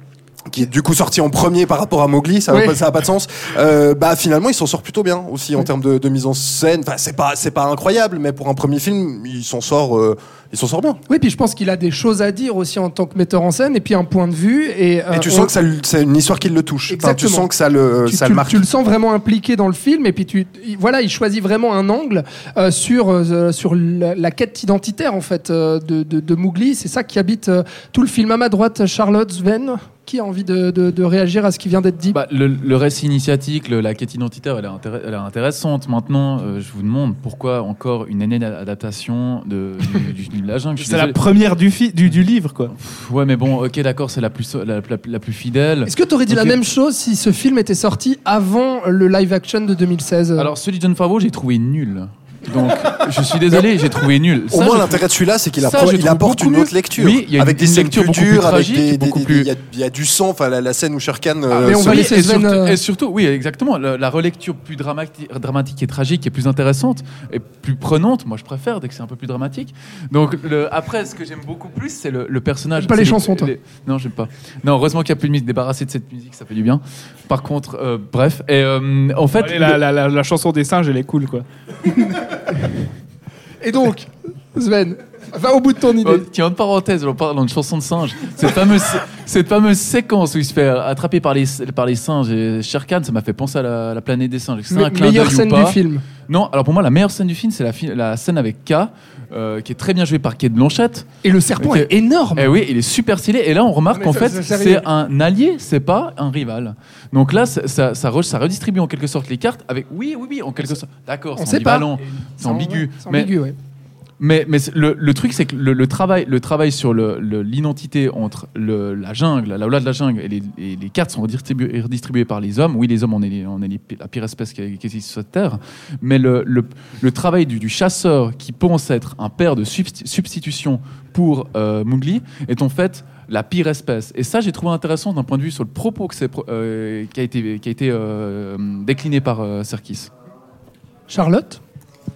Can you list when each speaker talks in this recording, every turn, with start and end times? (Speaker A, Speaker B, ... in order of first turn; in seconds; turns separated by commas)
Speaker A: 0.5-11.0, Speaker B: 2.5-2.8, Speaker B: 11.1-15.5, Speaker A: 15.1-18.7, Speaker B: 16.9-17.5, Speaker B: 18.1-32.2, Speaker C: 32.1-41.2, Speaker D: 40.8-42.7, Speaker C: 42.7-46.6, Speaker B: 45.9-50.5, Speaker C: 50.4-55.0, Speaker A: 54.5-62.1, Speaker C: 55.6-59.5, Speaker C: 61.5-79.8, Speaker B: 61.6-62.8, Speaker B: 72.8-73.5, Speaker D: 79.4-82.2, Speaker B: 83.6-86.3, Speaker C: 86.0-101.1, Speaker B: 94.7-96.0, Speaker B: 101.2-102.5, Speaker C: 101.6-113.3, Speaker B: 103.9-104.9, Speaker B: 111.4-113.6, Speaker C: 114.2-140.1, Speaker B: 141.1-141.6